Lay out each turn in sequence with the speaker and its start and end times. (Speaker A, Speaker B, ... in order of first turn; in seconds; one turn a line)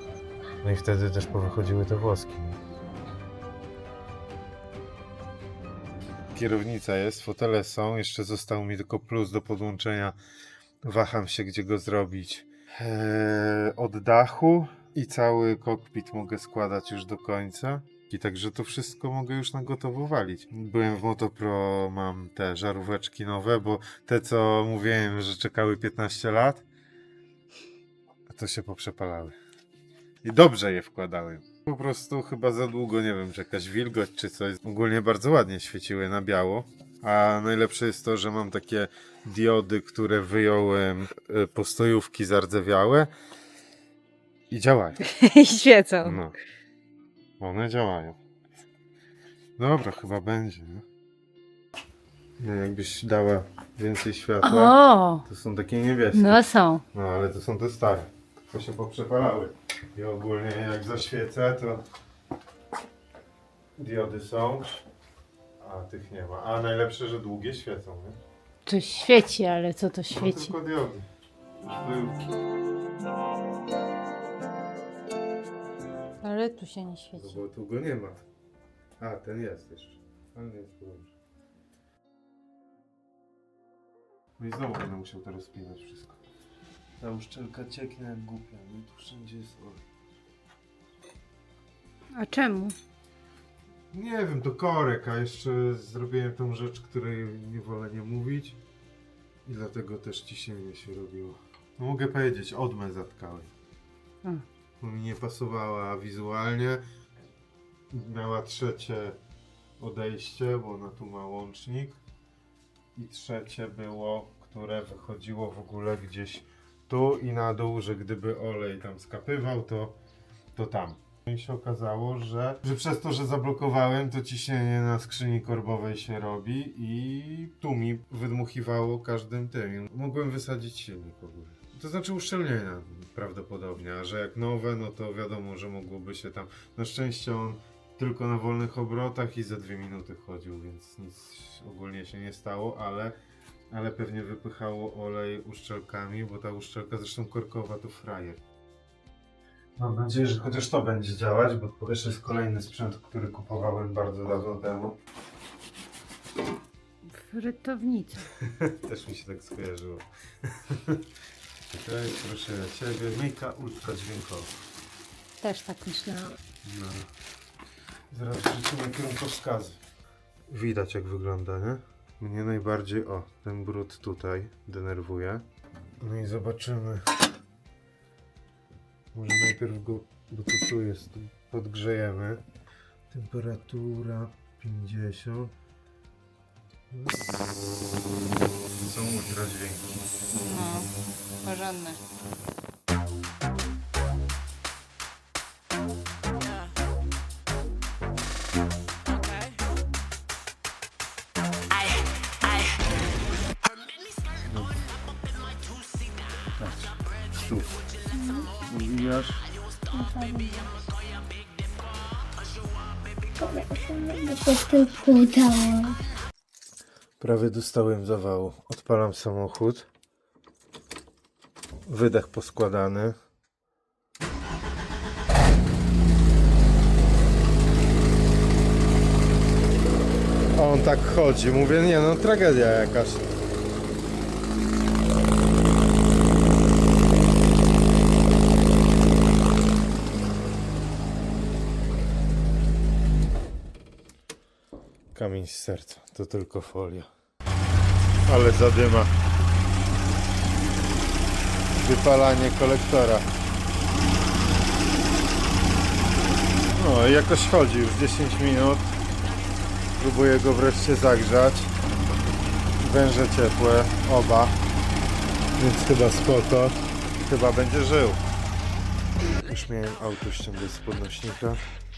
Speaker A: 0.6-2.6
Speaker A: 6.3-10.2
Speaker A: 10.8-26.6
Speaker A: 28.3-29.3
Speaker A: 30.2-43.1
Speaker A: 44.5-45.0
Speaker B: 45.0-46.2
Speaker A: 46.0-46.3
Speaker A: 47.4-48.2
Speaker A: 49.6-50.8
Speaker A: 52.4-61.8
Speaker B: 54.4-55.2
Speaker B: 56.1-56.8
Speaker A: 63.8-64.8
Speaker A: 65.6-68.2
Speaker B: 68.7-70.5
Speaker A: 70.1-71.0
Speaker A: 71.6-72.3
Speaker B: 76.2-77.4
Speaker A: 77.1-78.2
Speaker A: 79.0-81.1
Speaker A: 84.4-86.2
Speaker A: 87.0-89.8
Speaker B: 92.1-92.7
Speaker A: 93.9-98.6
Speaker A: 99.4-103.5
Speaker A: 104.8-106.8
Speaker A: 107.9-109.2
Speaker A: 109.8-112.0
Speaker A: 113.0-120.0
Speaker A: 120.5-143.2
Speaker A: 143.7-148.4
Speaker A: 149.8-154.9
Speaker B: 157.0-158.3
Speaker A: 158.4-161.0
Speaker A: 161.7-164.5
Speaker B: 165.4-166.4
Speaker A: 166.6-167.1
Speaker A: 168.1-169.8
Speaker A: 170.5-175.4
Speaker A: 176.0-177.1
Speaker A: 179.1-182.4
Speaker A: 183.1-185.5
Speaker A: 186.9-187.5
Speaker A: 188.8-190.1
Speaker B: 190.3-190.9
Speaker B: 191.4-192.0
Speaker A: 204.4-204.8
Speaker A: 206.6-207.8
Speaker C: 208.1-208.5
Speaker A: 208.7-209.4
Speaker C: 209.9-210.8
Speaker C: 213.4-215.9
Speaker A: 217.2-219.9
Speaker A: 221.8-223.2
Speaker A: 230.5-233.5
Speaker A: 245.1-247.1
Speaker A: 248.2-249.1
Speaker A: 251.8-253.2
Speaker A: 256.7-258.9
Speaker A: 260.0-261.7
Speaker A: 262.8-264.6
Speaker A: 265.6-268.2
Speaker A: 269.4-271.6